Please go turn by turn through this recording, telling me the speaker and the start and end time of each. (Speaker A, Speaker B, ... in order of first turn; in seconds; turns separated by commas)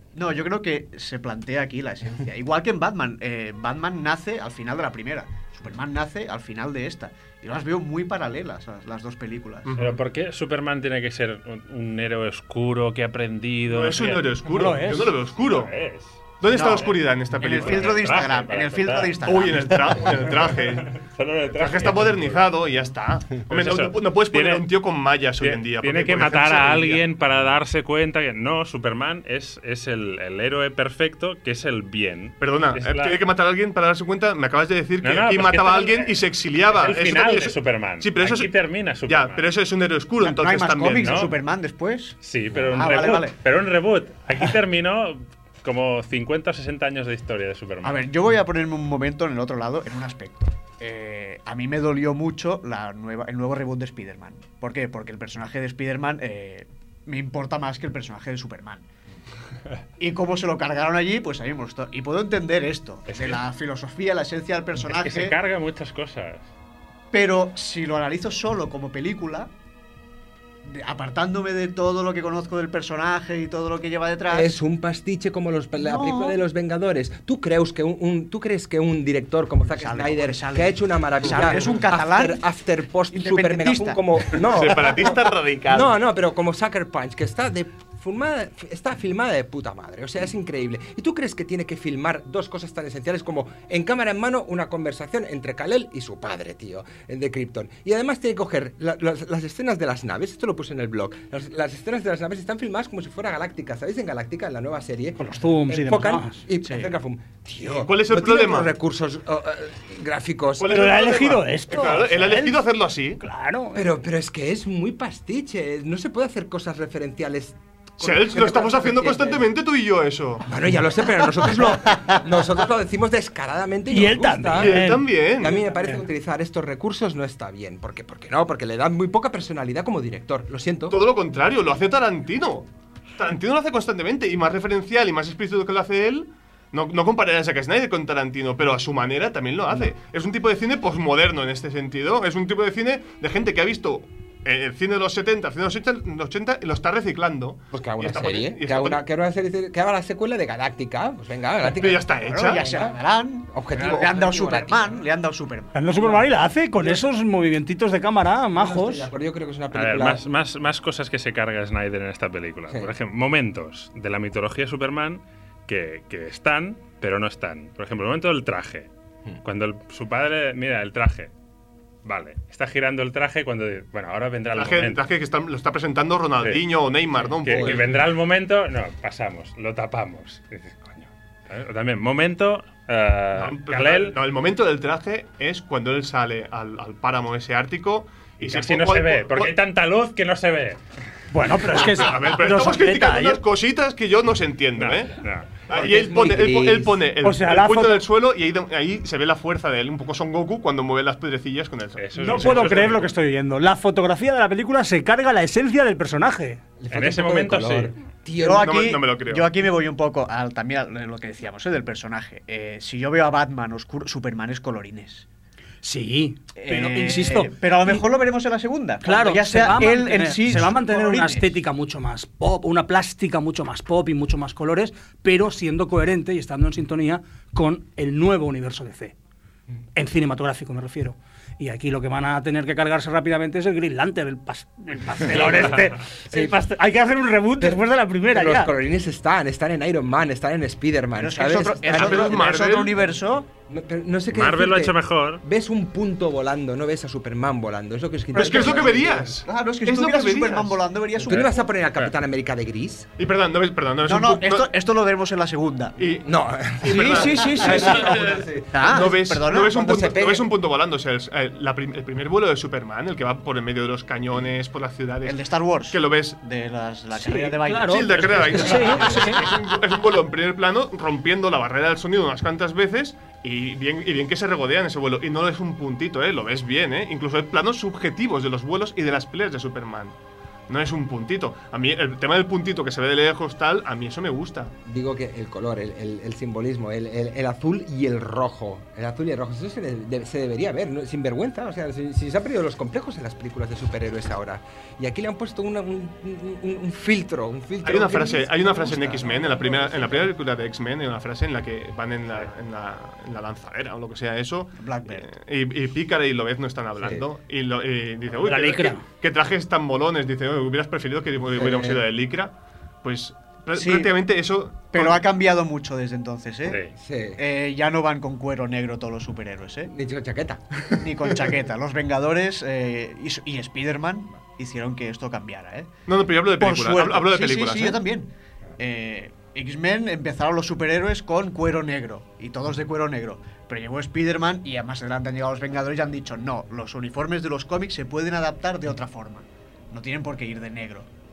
Speaker A: 0.1-9.7, Speaker B: 9.7-10.0, Speaker C: 9.8-14.4, Speaker B: 13.7-15.7, Speaker D: 14.4-15.2, Speaker C: 15.4-19.2, Speaker B: 16.4-18.0, Speaker A: 16.5-20.1, Speaker B: 19.2-20.9, Speaker C: 20.8-22.5, Speaker B: 21.5-27.0, Speaker C: 23.4-24.7, Speaker C: 25.4-33.2, Speaker B: 32.4-38.5, Speaker C: 35.0-39.5, Speaker B: 39.1-41.2, Speaker A: 40.2-42.2, Speaker C: 41.0-41.3, Speaker C: 42.2-48.1, Speaker A: 42.7-43.4, Speaker A: 47.8-58.9, Speaker A: 60.0-65.4, Speaker C: 63.1-63.4, Speaker C: 64.8-66.5, Speaker A: 67.1-69.5, Speaker A: 70.7-74.5, Speaker E: 74.3-110.8, Speaker A: 75.8-76.4, Speaker A: 79.7-82.4, Speaker B: 81.3-81.8, Speaker A: 83.1-84.0, Speaker B: 84.4-86.0, Speaker D: 105.2-106.5, Speaker A: 106.6-106.9, Speaker B: 107.8-108.7, Speaker B: 110.6-113.2, Speaker D: 110.7-112.7, Speaker D: 113.2-113.8, Speaker E: 113.8-119.5, Speaker B: 118.0-120.4, Speaker E: 120.5-131.0, Speaker D: 123.9-126.0, Speaker B: 124.6-125.6, Speaker B: 130.9-149.0, Speaker E: 147.7-155.1, Speaker B: 151.7-152.6, Speaker A: 152.3-155.9, Speaker D: 155.7-159.1, Speaker E: 158.6-160.2, Speaker C: 159.7-168.9, Speaker C: 169.4-171.3, Speaker C: 172.1-175.0, Speaker B: 174.5-177.8, Speaker E: 177.2-177.9, Speaker C: 177.4-184.2, Speaker B: 183.3-189.5, Speaker C: 188.4-190.8, Speaker D: 191.3-193.4, Speaker B: 191.8-195.1, Speaker C: 194.8-195.6, Speaker E: 195.7-197.1, Speaker B: 195.7-203.0, Speaker D: 197.2-198.1, Speaker C: 202.0-203.1, Speaker D: 202.2-206.6, Speaker E: 206.8-208.9, Speaker C: 206.9-207.9, Speaker A: 208.4-215.2, Speaker B: 208.6-209.5, Speaker D: 215.8-218.1, Speaker A: 216.6-221.5, Speaker D: 219.0-229.2, Speaker D: 229.9-238.7, Speaker E: 235.3-236.6, Speaker E: 237.6-249.4, Speaker A: 241.2-243.5, Speaker B: 241.9-243.0, Speaker C: 244.3-245.4, Speaker A: 248.3-251.6, Speaker B: 248.3-250.8, Speaker E: 251.2-253.1, Speaker B: 253.2-254.7, Speaker A: 254.0-255.9, Speaker B: 256.0-256.3, Speaker E: 256.2-259.2, Speaker B: 256.8-265.4, Speaker A: 256.8-258.2, Speaker A: 258.7-260.0, Speaker E: 259.7-260.5, Speaker A: 265.2-269.7, Speaker B: 265.9-266.4, Speaker D: 267.1-269.4, Speaker B: 267.9-280.2, Speaker B: 280.7-284.7, Speaker E: 284.9-300.3, Speaker B: 297.8-315.2, Speaker A: 304.8-305.3, Speaker E: 307.0-307.3, Speaker D: 308.4-309.1, Speaker E: 311.5-312.1, Speaker A: 313.8-314.1, Speaker A: 314.9-316.8, Speaker E: 316.9-317.4, Speaker A: 317.4-319.9, Speaker E: 319.9-321.5, Speaker A: 321.0-325.9, Speaker B: 326.1-328.0, Speaker A: 326.6-341.1